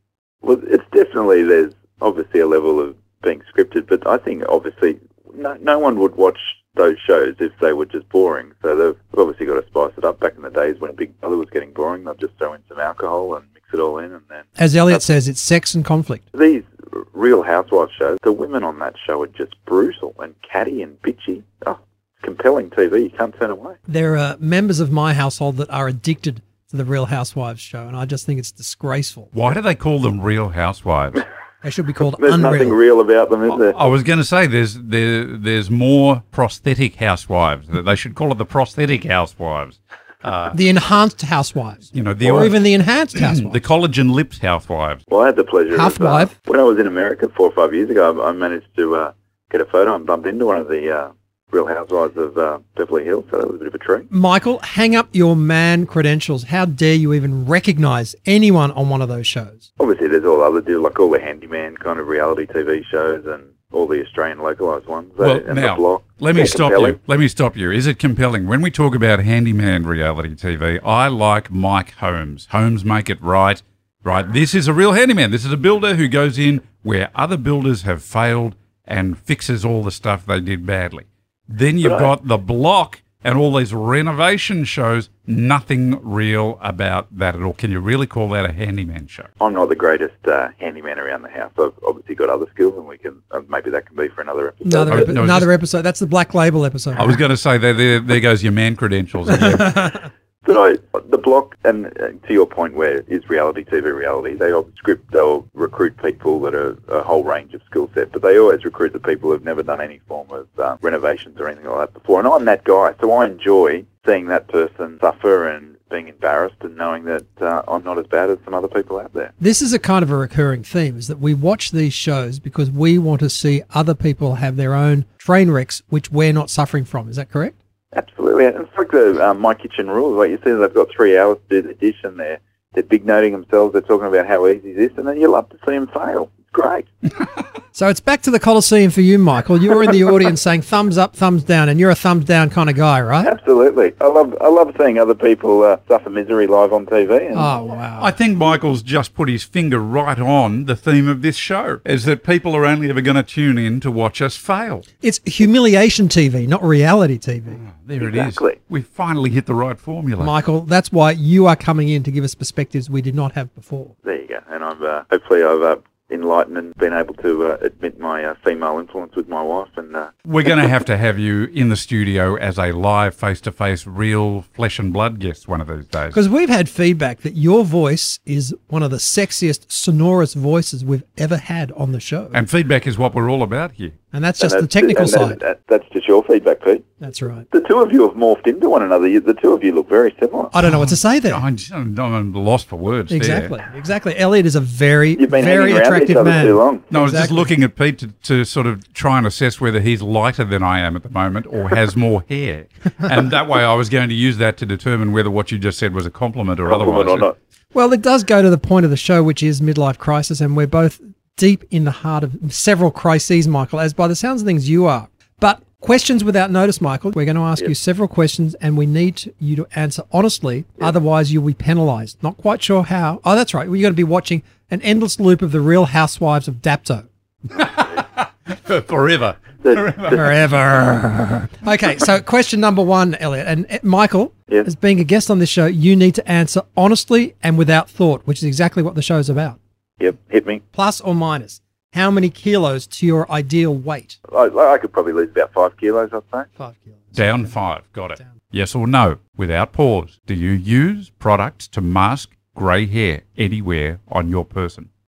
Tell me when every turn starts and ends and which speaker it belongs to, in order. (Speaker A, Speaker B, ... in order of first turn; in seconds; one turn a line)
Speaker A: 0.4-15.0
Speaker B: 14.6-16.2
Speaker A: 16.3-23.8
Speaker B: 23.9-29.3
Speaker C: 29.3-31.2
Speaker B: 31.6-32.8
Speaker A: 32.0-33.8
Speaker C: 33.5-40.6
Speaker B: 40.5-43.5
Speaker C: 41.9-42.6
Speaker C: 43.2-45.0
Speaker A: 45.1-54.1
Speaker B: 45.7-46.3
Speaker B: 54.1-59.7
Speaker A: 59.8-67.0
Speaker C: 65.2-89.3
Speaker A: 81.8-82.1
Speaker A: 89.4-95.1
Speaker B: 94.6-97.2
Speaker C: 94.9-95.5
Speaker C: 97.0-99.8
Speaker B: 99.3-100.0
Speaker A: 100.4-119.3
Speaker B: 119.4-127.5
Speaker A: 127.9-136.9
Speaker B: 137.7-143.3
Speaker A: 143.2-147.5
Speaker B: 147.3-148.1
Speaker C: 148.0-154.8
Speaker B: 155.0-157.6
Speaker C: 157.6-160.3
Speaker A: 158.0-158.6
Speaker B: 160.2-163.9
Speaker A: 164.0-170.1
Speaker C: 170.2-176.2
Speaker B: 176.1-182.4
Speaker C: 182.3-183.9
Speaker B: 184.1-185.4
Speaker A: 184.4-186.8
Speaker B: 187.0-187.4
Speaker A: 187.5-190.5
Speaker B: 190.5-191.4
Speaker C: 190.6-193.5
Speaker B: 193.1-197.5
Speaker A: 195.2-196.9
Speaker C: 196.9-207.3
Speaker A: 206.7-207.3
Speaker B: 207.7-227.1
Speaker C: 227.5-230.4
Speaker A: 229.6-230.2
Speaker B: 230.0-239.6
Speaker A: 240.0-240.6
Speaker B: 240.7-244.2
Speaker A: 244.3-246.5
Speaker B: 246.6-247.5
Speaker C: 247.2-254.9